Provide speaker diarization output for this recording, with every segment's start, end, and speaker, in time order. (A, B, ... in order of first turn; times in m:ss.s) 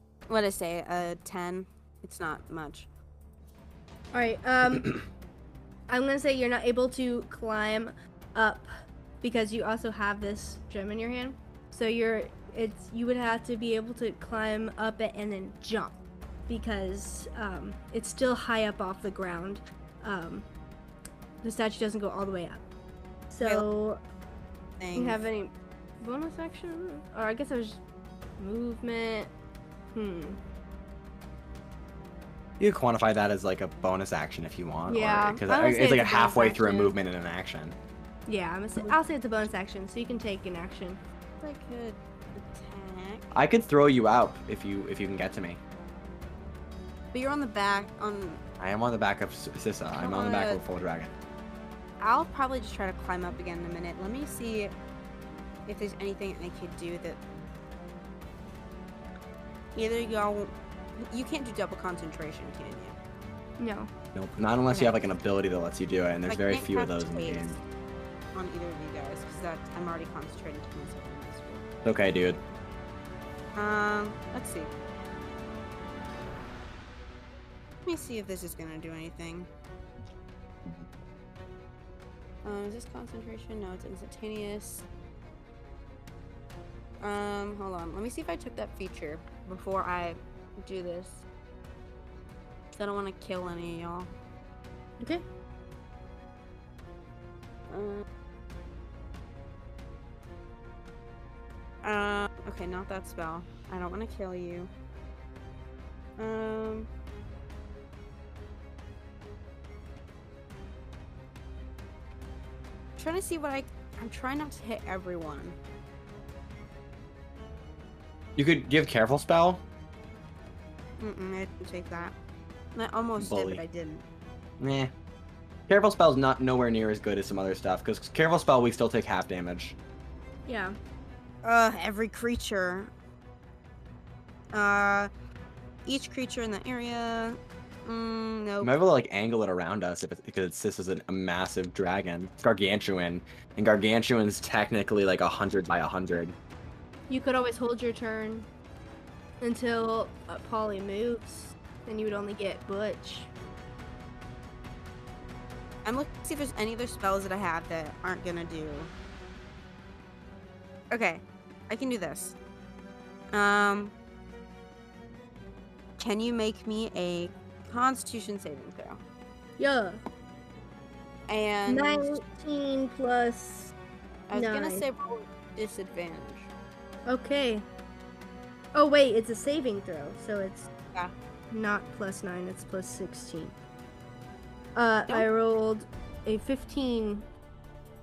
0:00.3-0:02.9 A
0:04.1-0:04.9 B
0:04.7-0:05.0 C
0:05.9-0:08.7 B
0:09.2-0:20.5 B
0:21.4-0:22.6 B
0:23.3-0:24.0 B
0:24.8-0:25.2 A
0:25.0-0:27.8 B
0:28.4-0:29.3 B
0:29.9-0:30.4 B
0:32.6-0:37.8 C
0:34.9-0:36.9 B
0:38.3-0:41.0 B
0:41.4-0:43.3 A
0:43.3-0:45.6 C
0:47.1-0:48.4 A
0:48.6-0:51.1 C
0:49.9-0:50.6 A
0:52.0-0:54.7 A
0:55.7-0:57.2 A
0:59.8-1:03.0 A
1:03.6-1:03.9 B
1:04.2-1:07.6 C
1:04.7-1:05.0 A
1:06.3-1:07.6 A
1:08.3-1:11.7 A
1:11.8-1:12.4 C
1:13.6-1:14.7 A
1:17.8-1:19.5 A
1:22.4-1:24.9 A
1:27.0-1:31.2 A
1:32.7-1:34.1 A
1:37.7-1:38.0 A
1:41.8-1:44.7 A
1:46.2-1:46.9 A
1:53.0-1:55.6 A
1:58.4-1:59.6 C
2:01.0-2:02.2 A
2:02.8-2:04.0 A
2:03.2-2:03.6 C
2:04.6-2:04.9 C
2:05.7-2:09.8 C
2:10.5-2:10.8 B
2:11.4-2:12.9 A
2:14.5-2:15.1 A
2:15.8-2:18.7 A
2:18.6-2:26.4 C
2:27.1-2:28.5 B
2:29.4-2:33.3 B
2:35.8-2:38.9 A
2:40.9-2:42.4 A
2:43.3-2:43.9 A
2:46.0-2:49.0 A
2:49.6-2:50.0 B
2:51.3-2:52.2 A
2:51.7-2:53.7 B
2:54.3-2:56.5 A
2:54.3-2:54.8 B
2:57.1-2:57.7 B
2:58.8-3:00.7 B
3:01.5-3:03.6 B
3:04.8-3:07.3 B